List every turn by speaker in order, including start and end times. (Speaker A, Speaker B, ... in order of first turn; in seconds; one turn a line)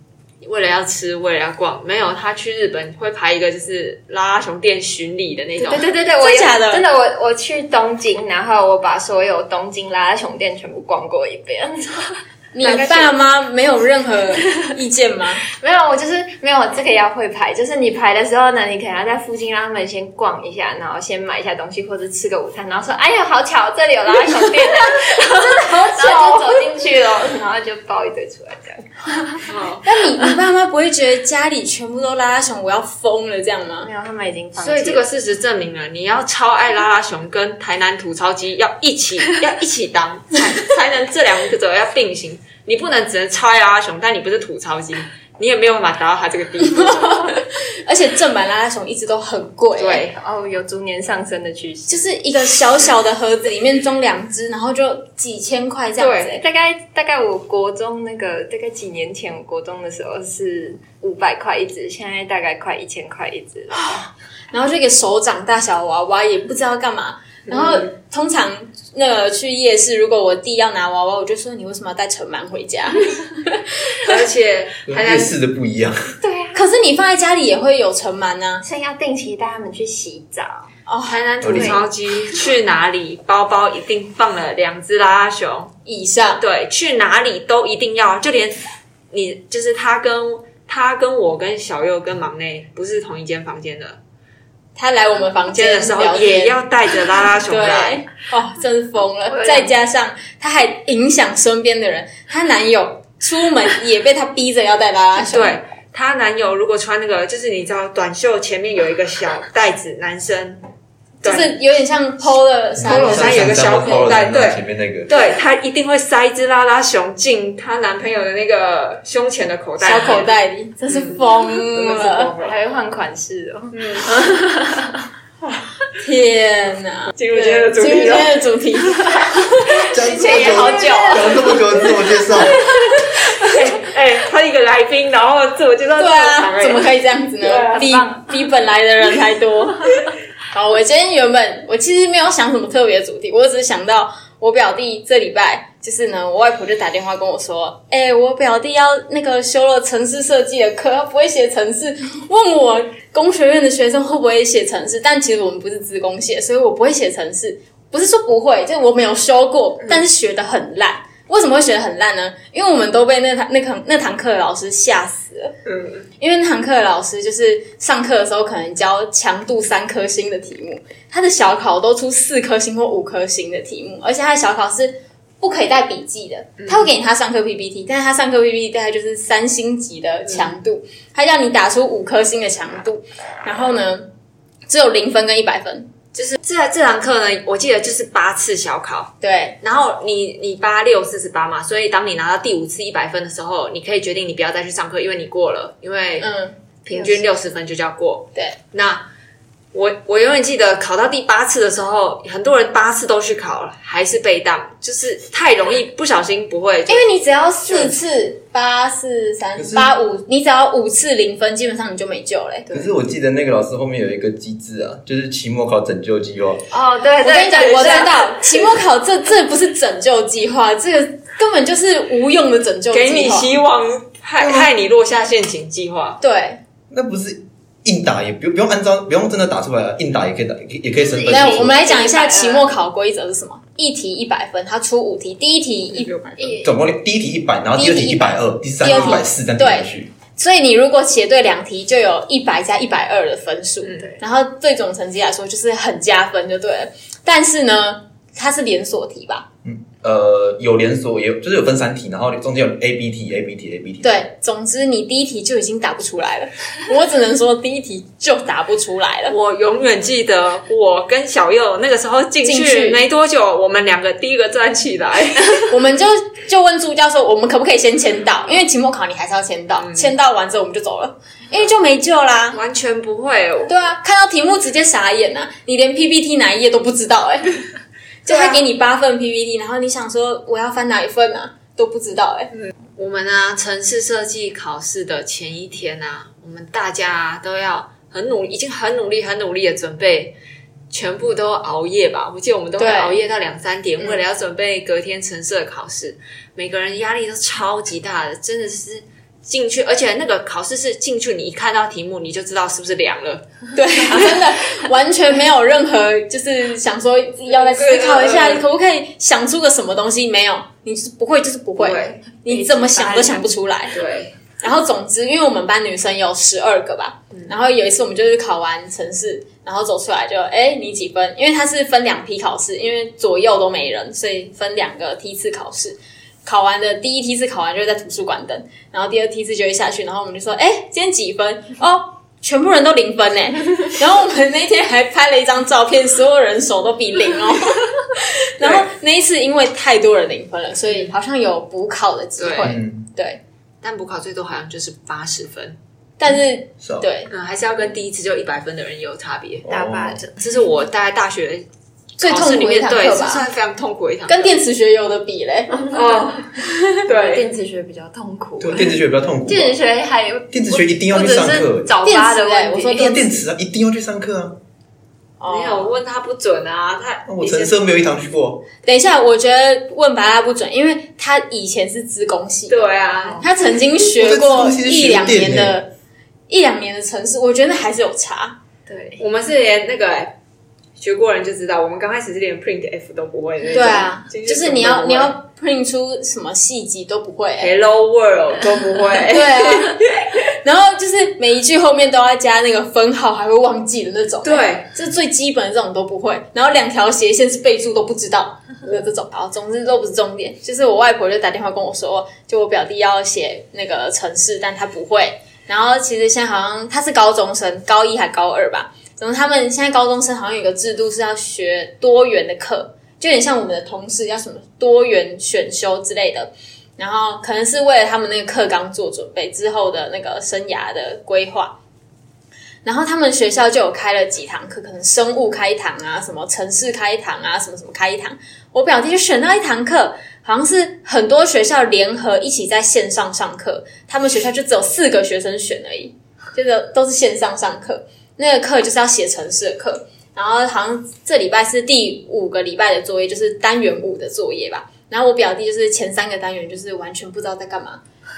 Speaker A: 0.4-5.9
Speaker B: 5.6-6.8
Speaker C: 5.6-13.1
Speaker B: 12.5-15.4
Speaker C: 15.5-29.4
Speaker B: 25.0-26.6
Speaker A: 29.4-29.8
Speaker B: 29.8-33.9
Speaker C: 33.8-35.0
Speaker A: 34.6-47.3
Speaker B: 46.6-50.0
Speaker A: 49.8-50.1
Speaker C: 50.1-52.0
Speaker B: 51.9-56.4
Speaker A: 56.0-56.4
Speaker C: 56.3-64.0
Speaker B: 63.7-74.1
Speaker A: 67.5-67.8
Speaker A: 74.0-75.3
Speaker D: 74.9-76.1
Speaker C: 76.2-76.6
Speaker B: 76.5-78.6
Speaker C: 78.6-80.7
Speaker B: 80.9-81.2
Speaker A: 81.0-85.7
Speaker D: 81.4-81.8
Speaker C: 81.5-81.8
Speaker B: 85.8-86.4
Speaker A: 86.4-94.0
Speaker B: 94.8-96.6
Speaker A: 95.5-98.0
Speaker B: 97.5-105.6
Speaker C: 99.3-99.7
Speaker A: 105.2-110.6
Speaker A: 111.2-111.6
Speaker B: 111.2-114.1
Speaker D: 112.8-115.1
Speaker A: 112.8-120.3
Speaker B: 119.8-122.3
Speaker A: 120.9-122.5
Speaker C: 122.4-125.0
Speaker A: 123.7-124.1
Speaker B: 126.0-131.6
Speaker A: 127.2-128.4
Speaker C: 129.8-131.9
Speaker D: 129.9-132.7
Speaker A: 130.2-131.3
Speaker B: 132.4-133.5
Speaker A: 133.1-136.9
Speaker B: 136.0-165.5
Speaker A: 137.4-137.7
Speaker C: 137.5-138.3
Speaker A: 165.7-166.1
Speaker B: 166.2-184.1
Speaker A: 176.6-176.9
Speaker A: 180.3-180.5
Speaker B: 184.7-185.9
Speaker A: 186.1-196.3
Speaker B: 189.2-189.6
Speaker B: 196.2-196.6
Speaker A: 196.8-199.1
Speaker C: 196.9-197.2
Speaker A: 199.7-208.0
Speaker B: 206.9-212.7
Speaker D: 209.6-209.9
Speaker D: 212.7-216.7
Speaker C: 216.7-218.2
Speaker B: 217.2-223.5
Speaker A: 217.6-218.2
Speaker A: 222.9-226.2
Speaker D: 224.4-224.7
Speaker B: 226.2-226.6
Speaker D: 226.9-231.7
Speaker C: 231.0-232.7
Speaker B: 231.3-236.6
Speaker A: 235.9-236.5
Speaker C: 236.4-236.7
Speaker D: 236.6-240.1
Speaker B: 237.8-249.5
Speaker A: 243.8-244.2
Speaker D: 249.6-254.2
Speaker B: 254.0-259.3
Speaker A: 259.3-265.7
Speaker B: 262.4-263.0
Speaker B: 265.7-272.6
Speaker A: 269.8-270.1
Speaker A: 272.5-273.7
Speaker B: 273.7-277.6
Speaker B: 278.2-282.5
Speaker A: 278.3-278.6
Speaker A: 282.5-290.4
Speaker A: 290.9-303.4
Speaker B: 292.8-293.2
Speaker B: 303.7-314.0
Speaker A: 307.5-308.7
Speaker A: 311.8-312.3
Speaker C: 312.5-313.4
Speaker A: 313.9-314.3
Speaker B: 314.6-343.4
Speaker A: 338.6-338.9
Speaker A: 342.4-342.7
Speaker D: 342.6-343.0
Speaker A: 343.8-345.8
Speaker B: 346.2-347.3
Speaker A: 347.3-349.6
Speaker D: 349.6-350.2
Speaker C: 349.7-350.4
Speaker A: 350.4-351.6
Speaker B: 352.2-353.4
Speaker A: 352.2-354.6
Speaker B: 354.3-355.9
Speaker A: 355.9-356.5
Speaker A: 357.0-357.5
Speaker C: 357.1-363.2
Speaker D: 358.6-359.8
Speaker D: 360.5-361.9
Speaker B: 362.0-363.3
Speaker D: 362.9-364.6
Speaker B: 365.4-365.9
Speaker A: 365.4-367.8
Speaker D: 367.3-368.6
Speaker B: 368.8-375.9
Speaker A: 372.7-373.4
Speaker D: 374.2-375.8
Speaker B: 376.5-378.6
Speaker C: 378.9-379.2
Speaker A: 379.2-380.3
Speaker A: 381.0-385.3
Speaker B: 383.7-387.7
Speaker A: 387.6-390.3
Speaker B: 389.3-390.0
Speaker B: 390.6-421.8
Speaker A: 394.4-394.9
Speaker B: 422.8-448.0